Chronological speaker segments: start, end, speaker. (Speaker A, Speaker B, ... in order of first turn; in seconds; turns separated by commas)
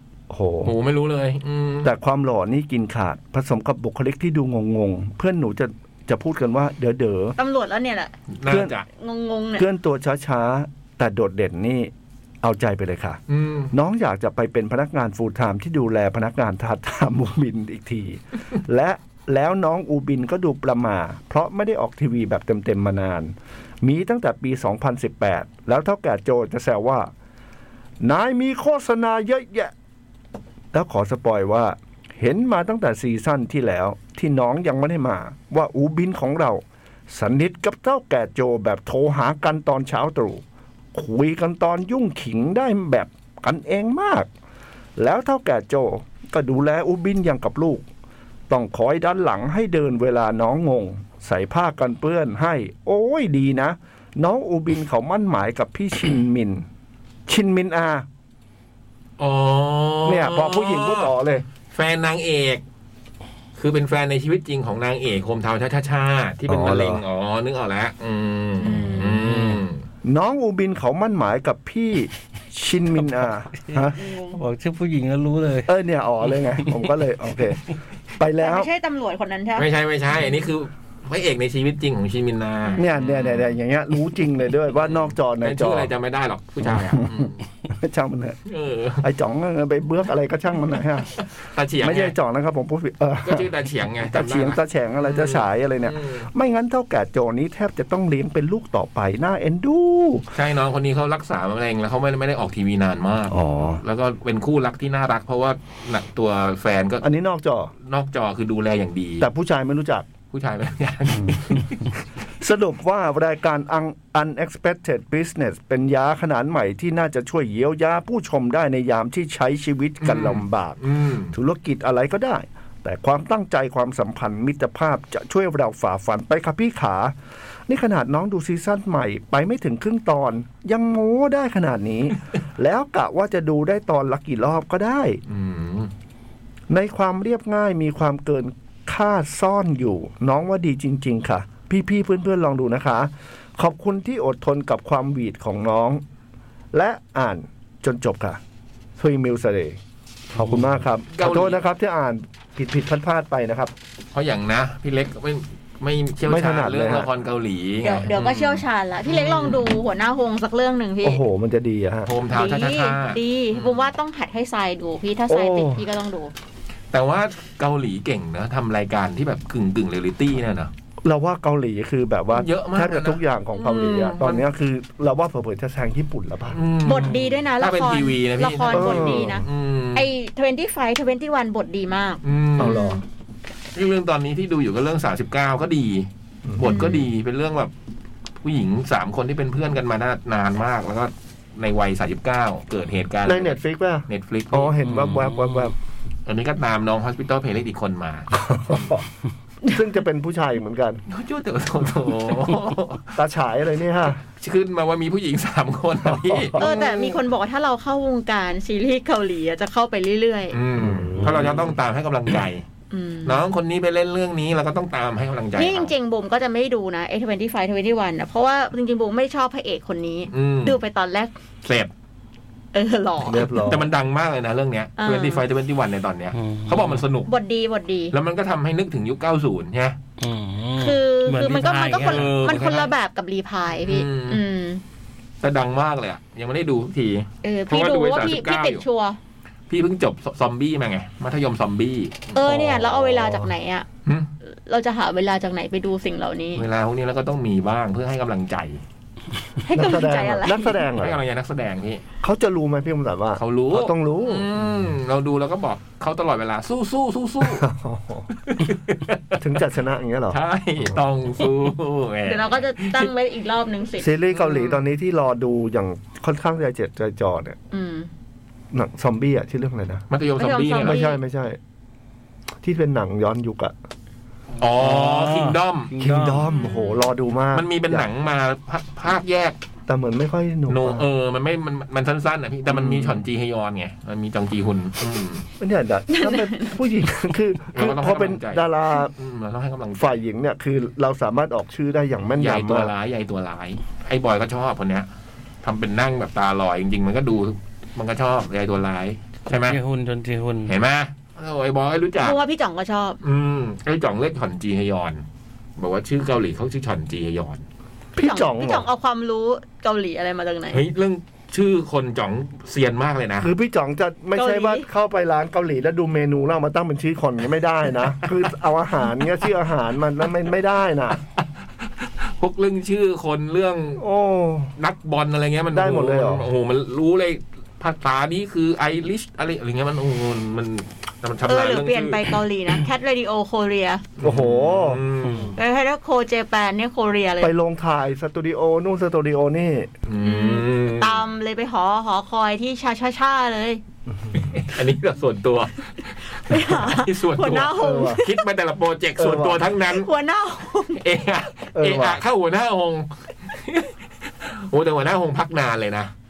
Speaker A: 0.3-0.7, Speaker B: 0.6-1.9, Speaker A: 1.8-7.3, Speaker C: 7.4-8.1, Speaker B: 8.4-8.8, Speaker A: 8.4-8.8, Speaker C: 8.9-9.7, Speaker A: 9.6-13.2, Speaker B: 13.3-13.7, Speaker A: 13.7-27.1, Speaker A: 28.0-29.7, Speaker A: 30.7-44.3, Speaker A: 45.0-47.8, Speaker A: 48.5-56.6, Speaker A: 57.3-58.0, Speaker B: 59.2-61.1, Speaker A: 60.0-61.4, Speaker B: 61.7-62.6, Speaker B: 63.6-69.8, Speaker A: 66.5-67.0, Speaker C: 68.6-69.2, Speaker D: 69.2-69.6, Speaker A: 70.0-73.9, Speaker D: 73.7-75.7, Speaker C: 73.9-74.4, Speaker A: 75.7-77.6, Speaker A: 78.2-78.7, Speaker C: 78.4-79.7, Speaker B: 79.6-83.6, Speaker A: 82.8-85.9, Speaker B: 84.7-87.4, Speaker A: 86.6-88.4, Speaker B: 88.5-89.0, Speaker A: 89.0-91.2, Speaker B: 91.5-92.1, Speaker A: 91.8-93.5, Speaker B: 93.2-96.3, Speaker A: 94.0-100.3, Speaker B: 100.3-107.0, Speaker A: 103.3-103.8, Speaker A: 107.0-107.7, Speaker B: 107.8-109.3, Speaker A: 109.2-110.1, Speaker B: 110.3-111.9, Speaker A: 112.4-127.1, Speaker B: 120.0-121.3, Speaker A: 127.7-135.2, Speaker B: 135.3-135.9, Speaker A: 136.7-146.0, Speaker A: 146.7-148.4, Speaker A: 149.0-149.8, Speaker A: 150.3-153.7, Speaker D: 150.4-150.7, Speaker B: 151.1-151.6, Speaker B: 154.1-159.6, Speaker A: 156.3-157.1, Speaker C: 157.8-161.2, Speaker A: 161.0-162.1, Speaker B: 162.1-163.9, Speaker C: 162.3-166.3, Speaker A: 165.3-165.8, Speaker B: 166.9-170.7, Speaker A: 171.0-176.6, Speaker B: 172.3-174.4, Speaker B: 176.5-180.1, Speaker C: 176.8-183.0, Speaker A: 178.7-179.4, Speaker B: 182.2-182.9, Speaker A: 182.6-183.0, Speaker B: 183.7-186.1, Speaker A: 186.5-186.7, Speaker B: 186.6-187.7, Speaker C: 186.6-187.1, Speaker B: 188.4-195.4, Speaker A: 193.2-195.7, Speaker D: 194.9-195.3, Speaker B: 196.2-199.0, Speaker A: 198.4-199.0, Speaker A: 199.7-201.0, Speaker B: 201.1-203.1, Speaker A: 203.2-204.2, Speaker B: 204.4-207.1, Speaker A: 206.0-206.7, Speaker C: 206.6-210.6, Speaker B: 210.5-212.6, Speaker A: 210.8-211.7, Speaker C: 212.9-213.4, Speaker B: 213.2-215.9, Speaker C: 215.6-221.3, Speaker B: 220.3-220.8, Speaker B: 221.6-221.9, Speaker C: 222.7-223.6, Speaker A: 223.2-223.9, Speaker B: 223.7-227.3, Speaker C: 225.0-225.4, Speaker D: 226.3-227.0, Speaker C: 227.3-228.1, Speaker B: 228.1-230.0, Speaker D: 230.2-232.6, Speaker C: 230.8-234.8, Speaker B: 232.0-232.9, Speaker B: 233.8-234.4, Speaker B: 235.4-238.8, Speaker C: 237.4-239.2, Speaker B: 239.7-242.4, Speaker C: 242.3-243.8, Speaker A: 242.4-243.5, Speaker C: 244.4-246.6, Speaker B: 246.5-248.8, Speaker C: 249.7-250.8, Speaker A: 249.7-251.2, Speaker B: 251.0-252.0, Speaker A: 252.2-254.5, Speaker B: 253.4-257.6, Speaker A: 257.4-258.3, Speaker B: 258.4-259.4, Speaker A: 259.4-260.9, Speaker B: 260.3-263.1, Speaker C: 262.3-264.2, Speaker A: 264.0-267.6, Speaker B: 264.4-264.8, Speaker C: 267.7-268.1, Speaker A: 268.7-270.1, Speaker B: 270.1-271.1, Speaker C: 270.4-271.2, Speaker A: 270.8-271.6, Speaker A: 272.6-273.7, Speaker B: 274.6-275.9, Speaker D: 274.8-276.4, Speaker A: 276.0-278.1, Speaker C: 276.5-277.0, Speaker B: 277.5-279.6, Speaker A: 279.9-281.1, Speaker B: 280.7-285.4, Speaker A: 282.7-283.2, Speaker A: 285.6-289.1, Speaker C: 286.1-286.8, Speaker B: 287.7-290.2, Speaker A: 290.0-292.9, Speaker B: 292.3-295.1, Speaker B: 295.6-299.8, Speaker D: 299.6-300.7, Speaker B: 300.7-302.4, Speaker C: 302.2-303.2, Speaker B: 303.2-305.2, Speaker B: 305.8-307.6, Speaker A: 308.1-308.8, Speaker C: 308.2-310.8, Speaker B: 310.7-313.5, Speaker A: 313.4-321.2, Speaker C: 314.3-314.9, Speaker B: 322.0-324.0, Speaker A: 324.0-324.7, Speaker B: 324.8-332.2, Speaker A: 325.7-326.5, Speaker C: 331.4-334.0, Speaker B: 334.2-335.5, Speaker A: 334.2-335.0, Speaker D: 335.2-335.6, Speaker C: 335.6-337.5, Speaker A: 337.4-339.9, Speaker B: 340.1-341.2, Speaker C: 340.2-343.8, Speaker A: 344.1-344.5, Speaker B: 344.4-350.1, Speaker C: 346.3-348.4, Speaker A: 347.8-348.2, Speaker A: 349.2-349.6, Speaker C: 349.9-351.0, Speaker B: 351.0-356.1, Speaker A: 351.7-352.2